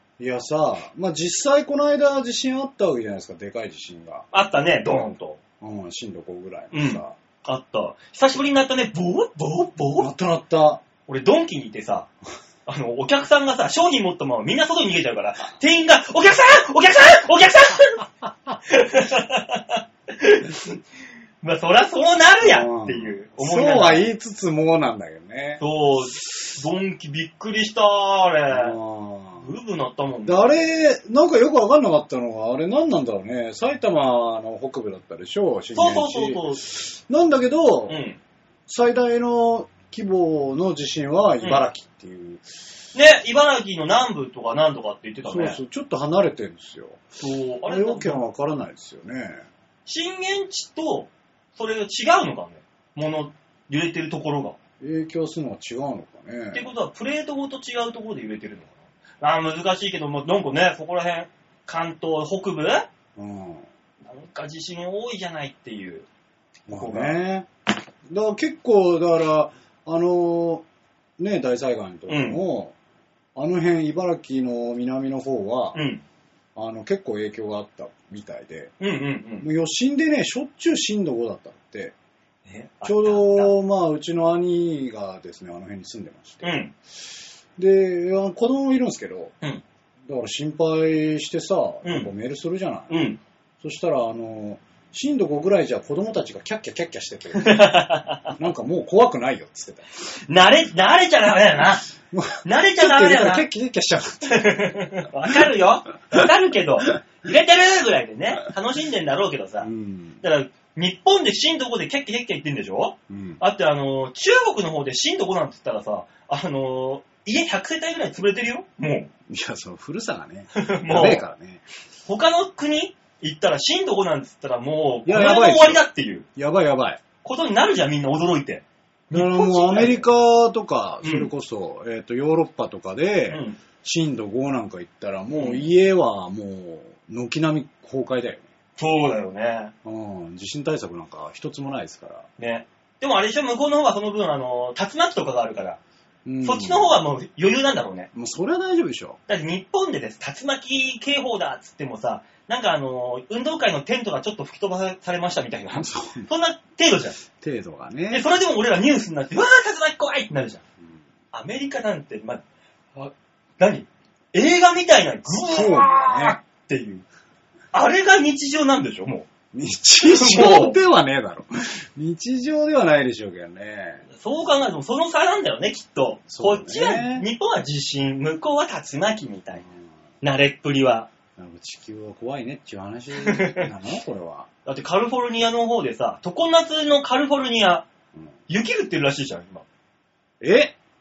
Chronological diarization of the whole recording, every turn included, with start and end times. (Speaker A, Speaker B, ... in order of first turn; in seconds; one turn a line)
Speaker A: 0.2-4.3
Speaker B: 4.3-5.4
Speaker A: 5.6-7.1
Speaker B: 6.7-10.1
Speaker A: 10.0-10.8
Speaker B: 11.1-12.1
Speaker B: 12.7-18.1
Speaker B: 18.6-20.8
Speaker B: 21.4-24.1
Speaker A: 22.4-25.6
Speaker B: 25.6-28.8
Speaker A: 28.5-29.6
Speaker B: 29.4-30.6
Speaker A: 30.2-38.0
Speaker B: 35.7-36.6
Speaker B: 37.9-38.2
Speaker A: 38.7-42.5
Speaker B: 42.9-45.6
Speaker A: 45.2-47.0
Speaker B: 47.2-48.2
Speaker A: 47.6-49.5
Speaker B: 49.9-54.6
Speaker A: 54.8-56.6
Speaker B: 56.5-62.9
Speaker A: 63.1-63.6
Speaker B: 64.0-66.0
Speaker A: 66.7-67.5
Speaker B: 66.7-67.2
Speaker A: 68.0-70.6
Speaker A: 71.2-72.7
Speaker B: 72.1-72.4
Speaker A: 73.3-75.8
Speaker B: 75.7-76.0
Speaker A: 76.5-78.7
Speaker B: 78.8-79.5
Speaker A: 79.4-81.9
Speaker B: 82.5-83.5
Speaker A: 82.8-86.6
Speaker B: 86.4-86.7
Speaker A: 87.6-89.3
Speaker A: 90.0-93.1
Speaker B: 91.8-92.1
Speaker B: 92.9-93.2
Speaker A: 93.6-99.9
Speaker B: 97.3-98.3
Speaker B: 100.3-101.9
Speaker A: 102.1-104.6
Speaker B: 102.4-103.5
Speaker B: 104.3-109.7
Speaker A: 109.6-110.2
Speaker B: 110.2-119.1
Speaker A: 113.1-113.4
Speaker A: 119.3-121.6
Speaker B: 120.5-121.2
Speaker B: 122.1-126.2
Speaker A: 125.0-125.8
Speaker A: 126.3-127.0
Speaker B: 127.2-130.0
Speaker A: 129.1-138.4
Speaker B: 131.0-131.3
Speaker B: 133.3-133.6
Speaker B: 135.3-135.7
Speaker B: 138.8-139.7
Speaker A: 139.8-142.3
Speaker B: 142.4-145.8
Speaker A: 146.2-146.9
Speaker B: 146.4-148.1
Speaker A: 148.1-149.2
Speaker B: 149.3-157.2
Speaker A: 155.7-156.3
Speaker A: 157.3-158.2
Speaker B: 158.1-160.6
Speaker B: 161.3-162.4
Speaker B: 162.9-167.0
Speaker A: 165.4-166.4
Speaker B: 167.7-169.3
Speaker A: 169.5-174.0
Speaker B: 170.0-170.8
Speaker B: 174.1-179.6
Speaker A: 176.3-177.3
Speaker B: 180.2-181.1
Speaker A: 181.4-184.5
Speaker B: 183.2-183.7
Speaker B: 184.7-187.9
Speaker B: 188.5-189.6
Speaker A: 190.4-190.7